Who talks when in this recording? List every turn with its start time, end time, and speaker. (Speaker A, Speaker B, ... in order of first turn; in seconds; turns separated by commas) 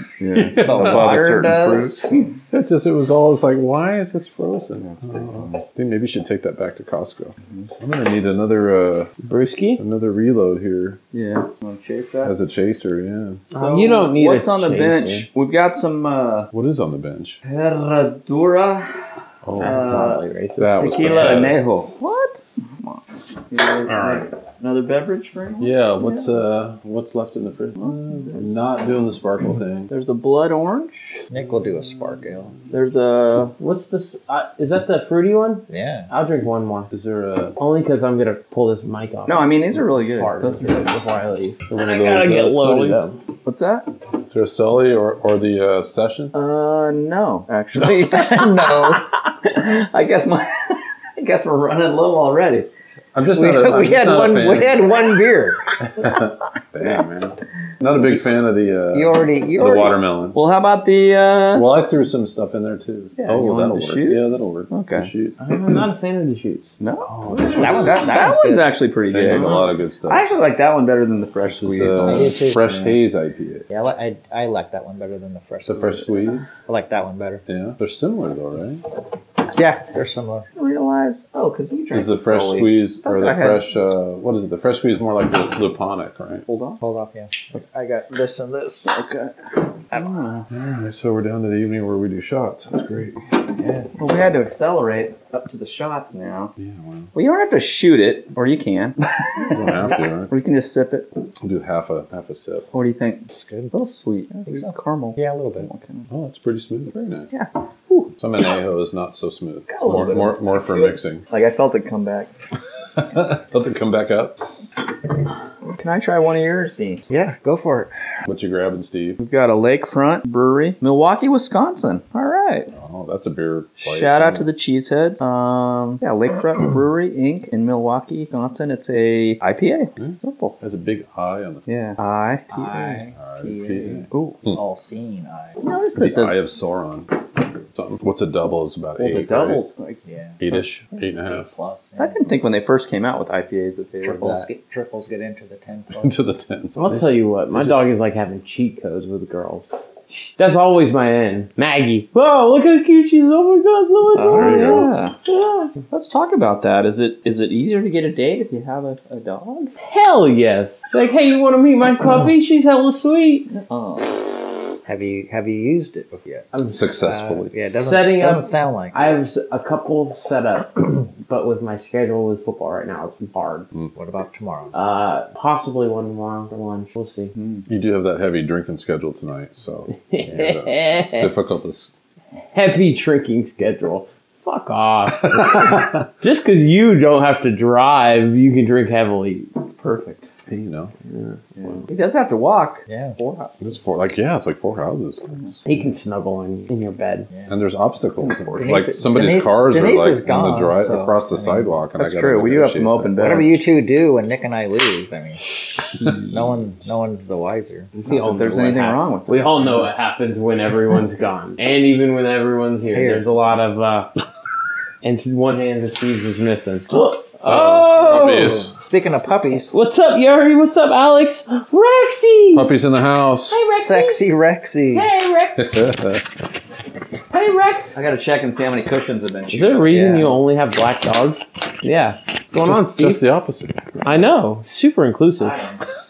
Speaker A: 0.2-2.3, Speaker B: 0.5-1.4, Speaker C: 0.6-2.0, Speaker B: 2.5-9.1, Speaker A: 4.8-5.6, Speaker D: 9.3-9.8, Speaker B: 9.8-11.0, Speaker A: 11.1-12.4, Speaker B: 12.2-13.4, Speaker A: 13.5-16.5, Speaker D: 13.5-15.3, Speaker B: 16.5-17.4, Speaker A: 17.4-19.0, Speaker B: 19.4-20.1, Speaker D: 19.6-21.5, Speaker A: 19.6-20.2, Speaker B: 20.6-21.6, Speaker A: 20.8-26.4, Speaker B: 23.9-24.2, Speaker B: 25.6-29.9, Speaker A: 27.8-28.6, Speaker A: 29.9-31.1, Speaker C: 31.3-32.5, Speaker A: 32.7-33.5, Speaker D: 33.6-36.9, Speaker C: 35.7-36.1, Speaker B: 36.9-37.6, Speaker D: 37.6-43.2, Speaker A: 39.3-40.9, Speaker B: 41.7-43.0, Speaker A: 43.5-43.9, Speaker B: 44.3-46.3, Speaker A: 46.3-52.7, Speaker C: 47.9-49.0, Speaker B: 53.1-54.8, Speaker C: 53.3-55.7, Speaker B: 56.0-60.4, Speaker C: 58.9-60.0, Speaker A: 60.3-61.7, Speaker B: 61.5-65.4, Speaker A: 63.2-65.1, Speaker D: 65.4-67.8, Speaker A: 66.8-72.3, Speaker B: 67.3-68.1, Speaker C: 67.5-68.7, Speaker B: 69.1-70.3, Speaker B: 71.5-73.7, Speaker C: 72.0-73.0, Speaker C: 73.7-77.4, Speaker B: 75.7-76.5, Speaker B: 77.5-78.8, Speaker C: 79.5-80.5, Speaker A: 80.6-83.7, Speaker B: 81.9-86.5, Speaker A: 86.5-86.8, Speaker C: 86.8-88.9, Speaker A: 88.9-90.5, Speaker B: 90.5-93.2, Speaker C: 93.6-93.9, Speaker A: 94.0-96.5, Speaker B: 96.6-97.1, Speaker A: 97.1-101.1, Speaker B: 99.5-100.3, Speaker B: 101.4-102.7, Speaker A: 102.7-106.1, Speaker C: 103.3-103.7, Speaker C: 104.5-105.7, Speaker B: 106.1-107.3, Speaker A: 107.3-108.1, Speaker B: 108.2-111.2, Speaker A: 109.7-112.3, Speaker B: 113.0-114.4, Speaker A: 115.8-117.1, Speaker C: 117.1-117.9, Speaker B: 118.3-119.2, Speaker A: 119.2-122.7, Speaker B: 122.7-124.5, Speaker A: 123.8-130.6, Speaker B: 130.0-131.6, Speaker A: 131.7-133.0, Speaker C: 132.5-135.6, Speaker B: 133.2-134.6, Speaker A: 134.1-134.4, Speaker A: 135.6-136.4, Speaker B: 136.0-139.7, Speaker A: 139.0-140.6, Speaker C: 140.1-142.2, Speaker B: 140.4-141.5, Speaker A: 142.0-144.5, Speaker C: 144.0-146.2, Speaker B: 146.0-147.8, Speaker D: 146.8-155.7, Speaker A: 154.1-155.2, Speaker B: 154.3-154.9, Speaker A: 155.9-159.7, Speaker D: 159.8-163.5, Speaker A: 163.5-164.2, Speaker C: 164.8-168.9, Speaker D: 166.5-166.9, Speaker B: 166.7-167.5, Speaker D: 167.7-173.7, Speaker C: 174.0-174.7, Speaker D: 174.7-177.3, Speaker A: 177.4-177.7, Speaker B: 177.7-181.9, Speaker D: 180.1-181.3, Speaker D: 182.6-189.5, Speaker B: 185.3-185.9, Speaker A: 189.6-190.3, Speaker B: 190.5-190.9, Speaker D: 191.1-191.4, Speaker A: 191.6-193.6, Speaker C: 192.9-193.2, Speaker B: 193.6-195.6, Speaker D: 195.7-197.3, Speaker B: 197.5-203.2, Speaker C: 198.6-201.7, Speaker A: 202.0-203.6, Speaker C: 203.2-205.4, Speaker C: 206.0-207.9, Speaker D: 208.0-214.1, Speaker A: 208.1-209.6, Speaker C: 212.9-213.2, Speaker D: 215.0-218.7, Speaker B: 217.4-218.7, Speaker C: 218.8-219.7, Speaker D: 219.7-222.7, Speaker B: 222.5-223.7, Speaker D: 223.5-224.3, Speaker C: 223.6-225.1, Speaker D: 224.9-225.7, Speaker B: 225.6-226.2, Speaker D: 227.3-227.9, Speaker A: 227.9-230.2, Speaker D: 229.5-233.2, Speaker C: 229.9-230.3, Speaker B: 232.6-233.8, Speaker D: 234.0-235.6